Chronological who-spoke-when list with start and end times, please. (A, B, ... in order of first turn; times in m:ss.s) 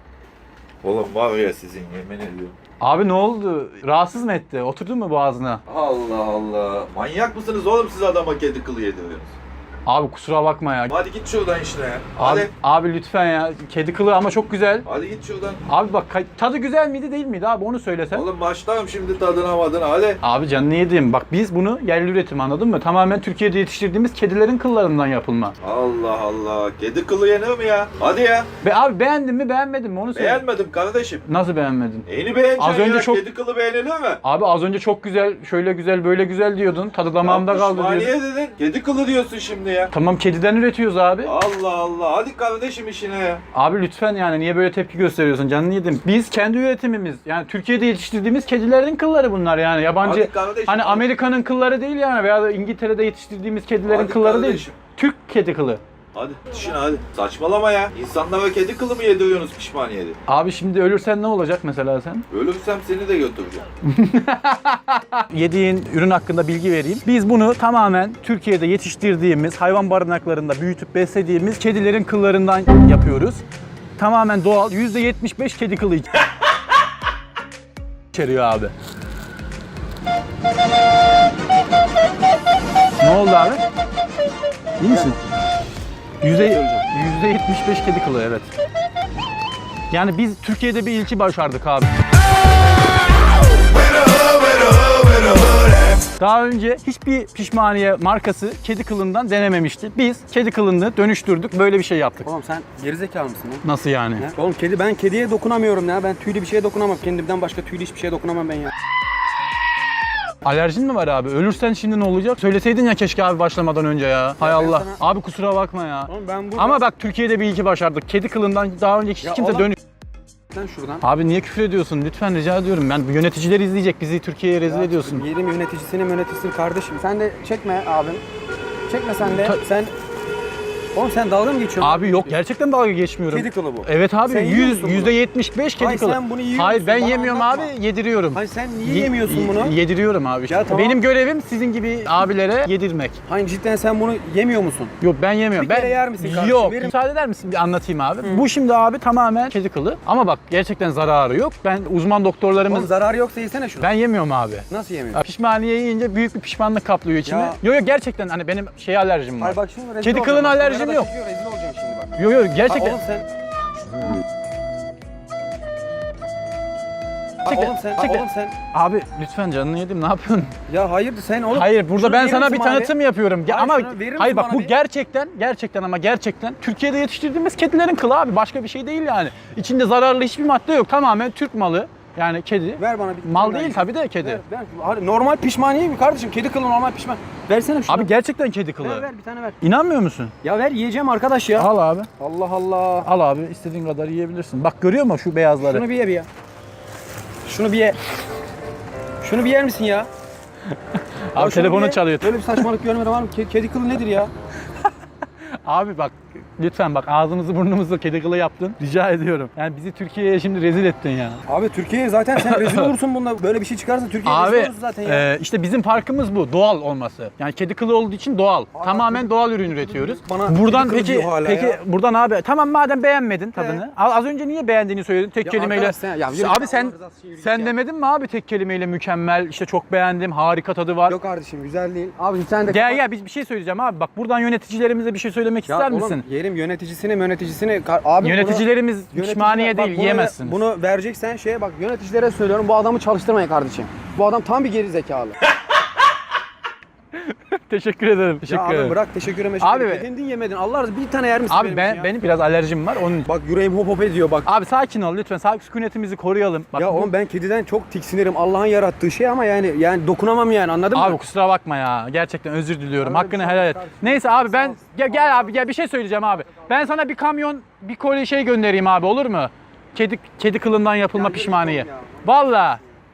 0:00.8-0:02.6 A
0:02.8-0:05.6 B
0:05.7-0:09.3 A
0:09.9-0:10.9 B
0:10.9-0:12.5 A
0:12.2-0:14.9 B
0:14.8-0:15.6 A
0:15.7-0:18.3 B
0:18.1-0:20.2 A
0:20.2-0:25.6 B
0:25.6-0:28.5 A
0:28.6-0:30.5 B
0:30.2-0:31.2 A
0:31.3-0:32.1 B
0:32.1-0:34.2 A
0:32.6-0:33.2 B
0:34.2-0:38.1 B
0:37.2-0:39.9 A
0:39.9-0:41.3 B
0:41.2-0:43.4 A
0:43.5-0:55.8 B
0:50.0-0:51.0 A
0:53.8-0:54.8 A
0:56.2-1:00.2 A
1:00.3-1:02.3 B
1:02.3-1:03.6 A
1:03.8-1:13.4 B
1:14.0-1:16.1 B
1:18.1-1:18.7 B
1:23.0-1:23.6 B
1:24.8-1:25.2 B
1:24.8-1:25.2 C
1:26.2-1:28.5 B
1:26.3-1:26.8 C
1:29.9-1:31.9 B
1:36.2-1:42.3 B
1:42.2-1:43.6 C
1:43.6-1:44.3 B
1:44.2-1:48.7 C
1:50.4-1:59.8 B
1:54.4-1:55.0 C
1:56.1-1:56.8 C
1:59.2-1:59.8 C
2:00.5-2:01.0 C
2:01.0-2:05.2 B
2:04.7-2:08.2 C
2:08.9-2:09.9 C
2:09.2-2:09.6 B
2:10.9-2:12.4 C
2:11.8-2:23.2 B
2:13.3-2:15.2 C
2:15.8-2:17.7 C
2:18.3-2:19.8 C
2:20.5-2:21.0 C
2:23.3-2:25.0 C
2:25.0-2:32.9 B
2:25.6-2:27.0 C
2:32.7-2:33.9 C
2:33.8-2:41.1 B
2:34.7-2:35.2 C
2:37.3-2:37.6 C
2:39.4-2:43.3 C
2:42.2-2:43.0 B
2:47.4-2:48.6 C
2:47.5-2:50.5 B
2:50.7-2:53.0 C
2:51.5-3:04.4 B
2:53.5-2:54.8 C
3:02.8-3:08.1 C
3:07.9-3:09.1 B
3:08.8-3:09.6 C
3:09.6-3:10.3 B
3:10.4-3:13.1 C
3:11.6-3:12.1 B
3:13.0-3:15.8 B
3:15.6-3:16.3 C
3:17.5-3:18.0 C
3:19.2-3:20.1 C
3:21.3-3:22.4 B
3:21.4-3:24.3 C
3:25.6-3:31.4 B
3:31.5-3:35.3 C
3:32.4-3:32.9 B
3:34.2-3:51.2 B
3:38.7-3:41.8 C
3:43.5-3:43.8 C
3:45.4-3:47.8 C
3:51.1-3:53.0 C
3:52.7-3:56.2 B
3:55.7-4:05.4 C
3:58.2-4:00.6 B
4:07.2-4:09.0 B
4:08.5-4:12.1 C
4:09.6-4:10.1 B
4:11.5-4:13.3 B
4:13.2-4:14.5 C
4:14.5-4:17.1 B
4:16.8-4:21.2 C
4:20.9-4:32.8 B
4:23.0-4:25.5 C
4:31.1-4:32.4 C